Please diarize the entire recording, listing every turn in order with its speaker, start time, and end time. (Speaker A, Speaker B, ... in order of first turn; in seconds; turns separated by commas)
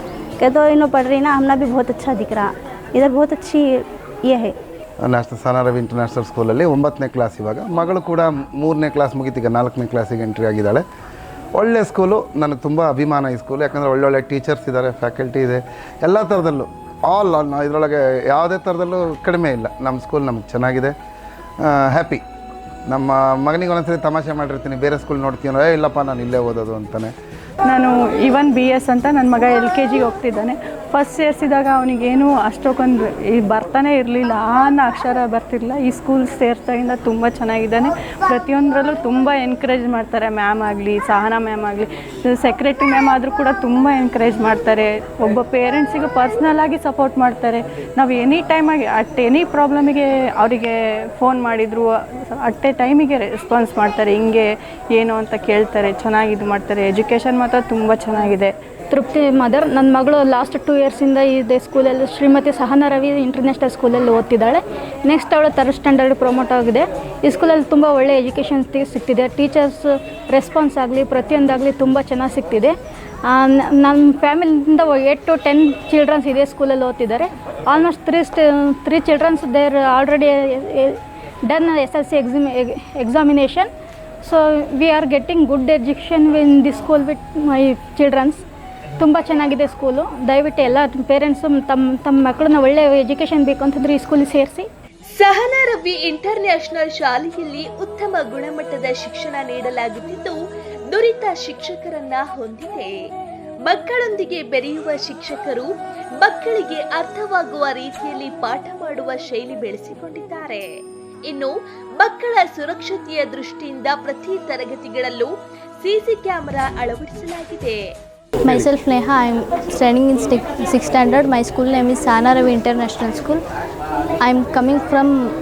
Speaker A: 0.4-3.7, Speaker A: 4.2-4.5, Speaker B: 5.0-10.8, Speaker B: 11.6-20.9, Speaker B: 21.7-22.2, Speaker B: 22.9-27.1, Speaker C: 27.7-54.4, Speaker C: 55.0-58.5, Speaker D: 58.9-72.7, Speaker D: 73.3-83.7, Speaker D: 84.2-88.4, Speaker D: 89.0-94.7, Speaker E: 95.2-100.3, Speaker E: 100.9-102.9, Speaker E: 103.7-105.7, Speaker E: 106.2-110.7, Speaker E: 111.3-115.3, Speaker E: 115.8-117.8, Speaker F: 118.5-123.4, Speaker F: 124.2-125.1